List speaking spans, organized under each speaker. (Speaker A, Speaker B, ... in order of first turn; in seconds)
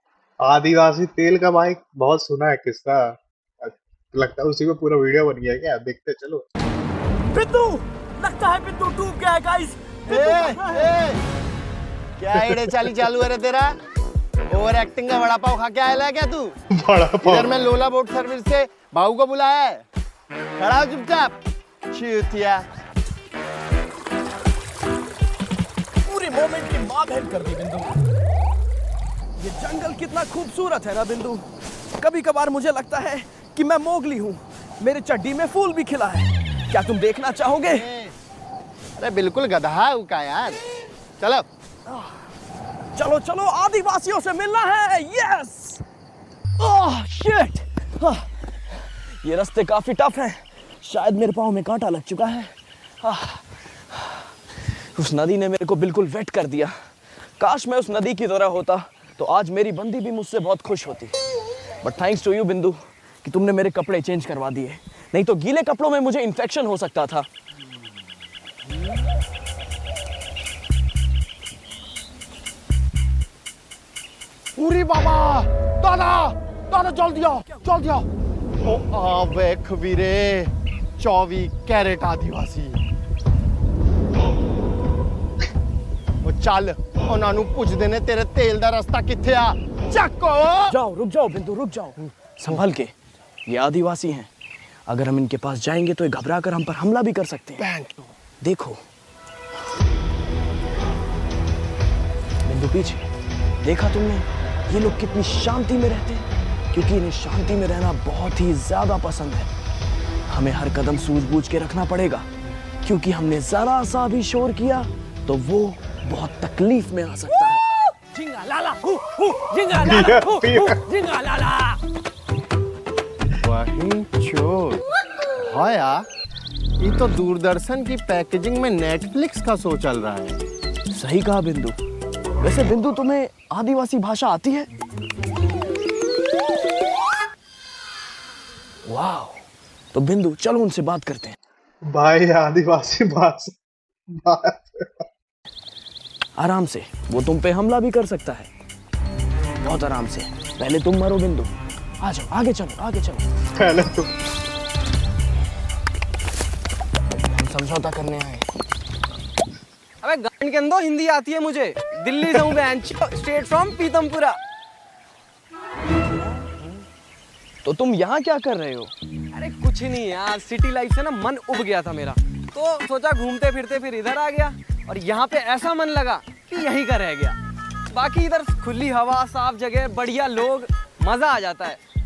Speaker A: 0.4-6.4, 12.4-12.8, 16.7-17.6, 119.8-120.8, 141.9-143.5, 144.1-144.9, 153.6-154.1
Speaker B: 7.3-11.0, 26.0-28.0, 29.4-31.5, 32.0-37.9, 41.9-42.2, 43.0-45.8, 46.6-54.2, 54.9-56.7, 57.4-61.1, 61.8-67.3, 90.7-92.9, 93.5-94.3, 94.9-97.6, 98.4-98.8, 102.4-103.0, 103.6-109.5, 110.3-112.3, 112.8-121.8, 130.9-131.8, 132.4-134.7, 138.9-139.4, 139.9-141.3, 146.4-148.5, 149.6-153.3, 157.4-158.4, 166.0-166.5, 167.6-168.9
Speaker C: 10.1-11.2, 12.2-13.8, 14.5-16.6, 17.2-19.8, 20.6-22.7, 37.6-38.1, 39.0-40.6, 41.2-41.5, 74.6-78.0, 78.6-82.8, 86.2-90.7, 97.6-98.1, 123.4-124.8, 125.4-126.0, 126.8-130.4
Speaker D: 160.0-164.4, 169.3-177.4, 177.9-181.8